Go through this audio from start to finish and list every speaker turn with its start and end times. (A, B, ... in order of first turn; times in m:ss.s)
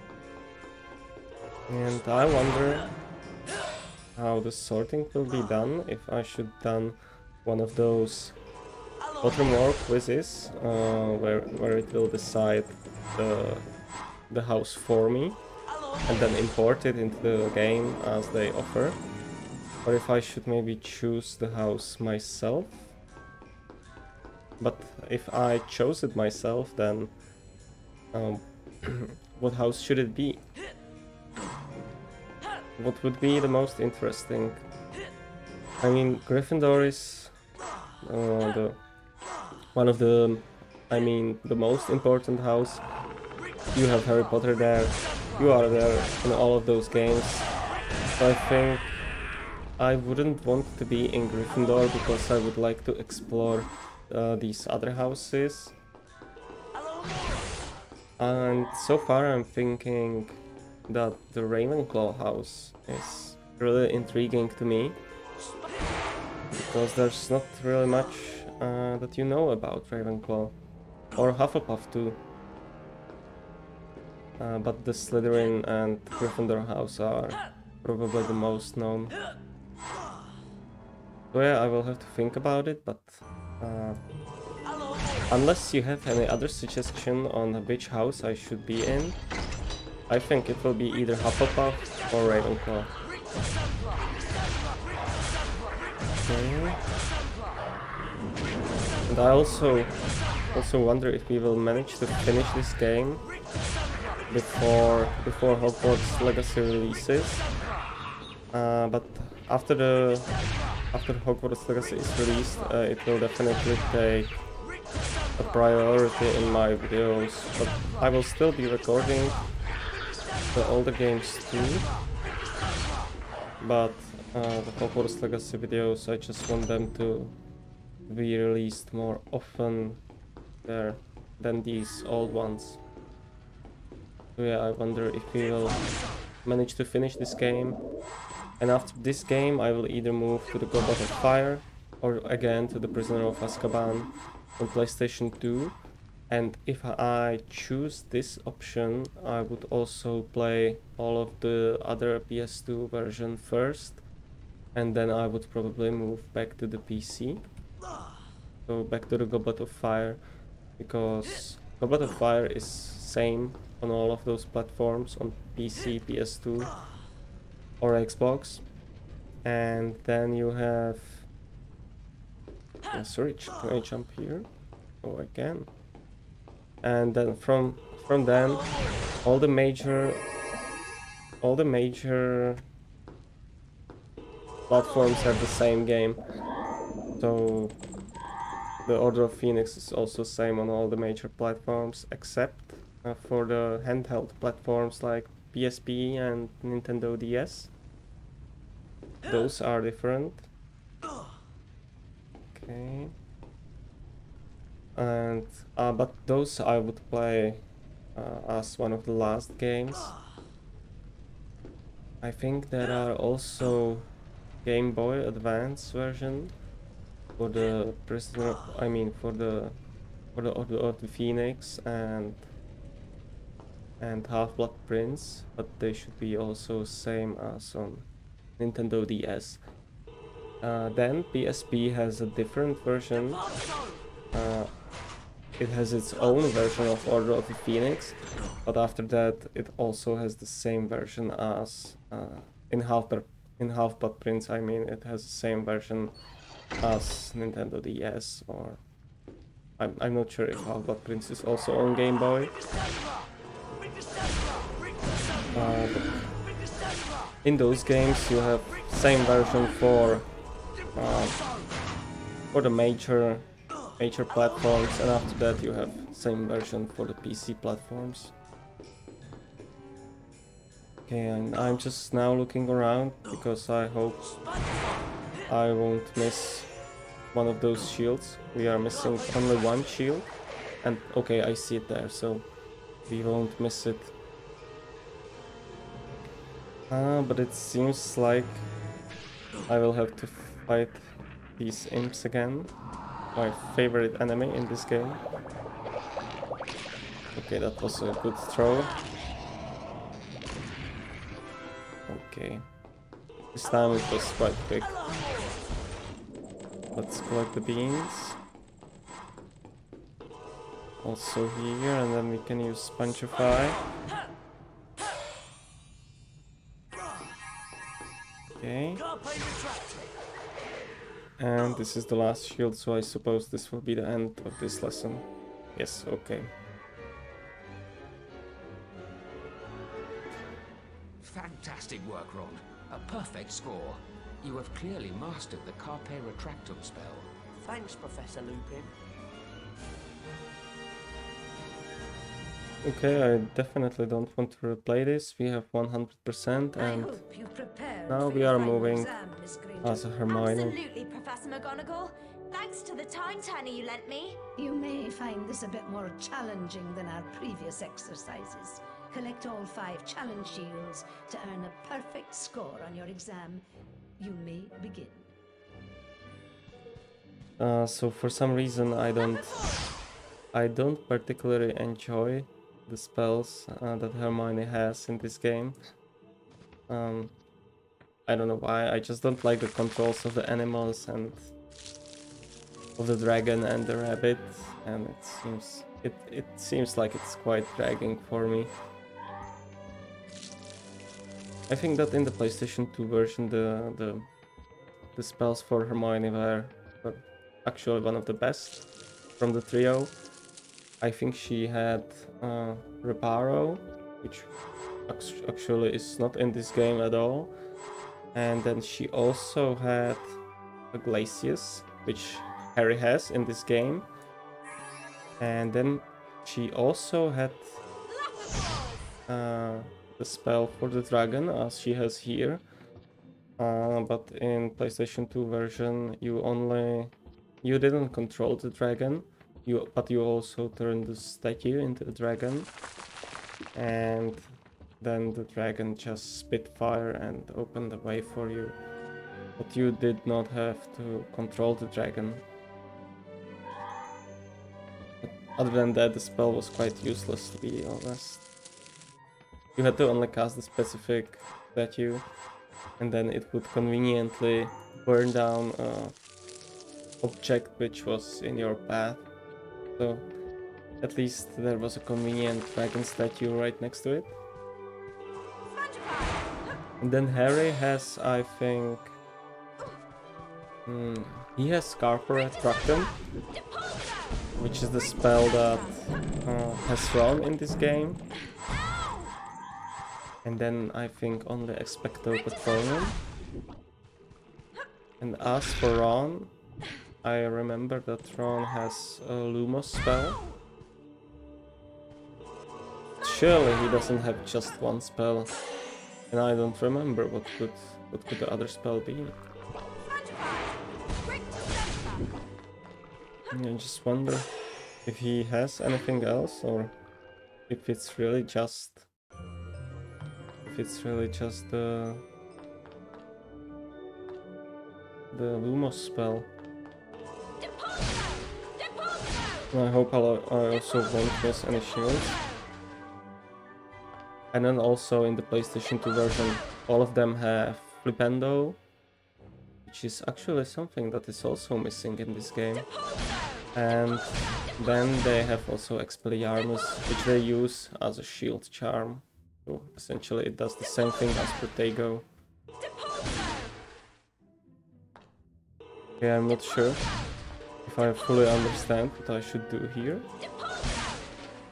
0:01.7-0:02.9 A
0:04.2-0:08.4 A
0:09.2-0:13.7 A
0:14.3-0:15.4 A
0:16.1-0:19.0 A
0:19.8-0:22.9 A
0:24.6-0:27.1 A
0:28.1-0:30.4 A
0:32.8-0:34.6 A
0:35.8-0:37.3 A
0:38.0-0:38.8 A
0:39.8-0:42.8 A
0:43.7-0:47.5 A
0:48.2-0:48.9 A
0:49.8-0:55.8 A
0:58.2-1:05.0 A
1:06.5-1:10.6 A
1:11.2-1:12.2 A
1:14.4-1:19.2 A
1:21.3-1:24.0 A
1:25.3-1:29.2 A
1:30.1-1:32.9 A
1:33.0-1:36.0 B
1:36.2-1:36.8 A
1:37.0-1:37.6 B
1:39.1-1:40.0 A
1:40.5-1:43.3 A
1:44.3-1:47.5 A
1:48.5-1:50.3 A
1:50.9-1:54.3 A
1:55.4-1:59.4 A
2:00.5-2:01.9 A
2:03.6-2:07.4 A
2:08.1-2:10.0 A
2:10.6-2:12.8 A
2:14.4-2:15.9 A
2:16.4-2:17.8 A
2:18.6-2:25.8 A
2:26.3-2:34.0 A
2:34.7-2:37.5 A
2:38.7-2:40.2 A
2:40.8-2:46.7 A
2:47.8-2:48.6 A
2:49.4-2:51.3 A
2:52.9-2:54.5 A
2:55.0-2:55.7 A
2:56.8-2:58.7 A
2:59.2-3:00.2 A
3:01.4-3:02.6 A
3:04.7-3:06.2 A
3:07.2-3:07.8 A
3:08.9-3:17.7 A
3:19.2-3:20.5 A
3:22.6-3:23.1 A
3:25.0-3:27.6 A
3:28.2-3:30.1 A
3:32.2-3:34.1 A
3:34.6-3:36.5 A
3:37.4-3:39.8 A
3:40.4-3:42.4 A
3:44.0-3:48.1 A
3:48.6-3:49.6 A
3:50.6-3:53.4 A
3:54.3-3:54.7 A
3:55.6-4:06.2 A
4:06.8-4:08.8 A
4:09.8-4:12.5 A
4:13.8-4:14.9 B
4:15.5-4:16.0 A
4:16.6-4:17.2 B
4:17.4-4:20.3 A
4:21.0-4:21.4 A
4:22.5-4:23.5 A
4:24.0-4:28.3 A
4:31.1-4:34.2 A
4:35.5-4:36.7 A
4:37.3-4:40.3 A
4:40.8-4:42.5 A
4:43.1-4:44.1 A
4:46.9-4:48.7 A
4:49.7-4:52.7 A
4:53.4-4:55.2 A
4:57.4-4:59.0 A
5:02.1-5:02.6 A
5:03.5-5:04.9 A
5:06.9-5:08.4 A
5:11.0-5:13.8 A
5:18.6-5:19.0 A
5:21.4-5:26.5 A
5:31.2-5:37.3 C
5:37.6-5:38.9 B
5:42.8-5:47.2 A
5:46.8-5:50.1 D
5:48.1-5:49.1 A
5:49.8-5:50.8 A
5:50.3-5:54.5 E
5:54.6-6:03.6 D
6:04.2-6:05.3 D
6:07.6-6:09.8 A
6:10.5-6:15.8 A
6:16.9-6:17.3 A
6:18.3-6:21.5 A
6:23.0-6:28.7 A
6:31.7-6:34.3 A
6:35.2-6:38.8 A
6:39.4-6:40.1 A
6:41.0-6:44.5 A
6:45.1-6:47.5 A
6:48.3-6:50.4 A
6:50.9-6:54.1 A
6:55.4-6:57.8 A
6:58.1-6:59.0 E
6:59.3-7:02.6 A
7:03.6-7:12.7 A
7:13.8-7:14.5 A
7:15.0-7:18.8 A
7:19.6-7:22.4 A
7:25.2-7:28.4 A
7:29.8-7:32.2 A
7:33.0-7:36.2 A
7:37.2-7:39.3 A
7:40.0-7:40.2 A
7:41.0-7:44.3 A
7:45.7-7:46.7 E
7:47.0-7:49.2 A
7:50.9-7:53.1 A
7:53.5-7:54.6 E
7:54.6-7:58.2 A
7:55.4-7:56.1 E
7:58.8-7:59.3 E
8:00.4-8:03.2 A
8:05.2-8:06.5 A
8:07.2-8:10.4 A
8:13.2-8:15.5 A
8:16.3-8:19.4 A
8:20.0-8:22.3 E
8:23.5-8:24.5 A
8:25.1-8:26.9 A
8:27.7-8:29.1 A
8:30.6-8:32.2 A
8:35.3-8:36.5 A
8:37.6-8:38.4 E
8:39.1-8:39.6 E
8:39.7-8:42.4 A
8:44.5-8:48.8 A
8:49.9-8:52.9 A
8:53.8-9:02.3 A
9:03.0-9:03.6 E
9:06.2-9:07.1 A
9:07.8-9:10.3 A
9:10.4-9:11.2 E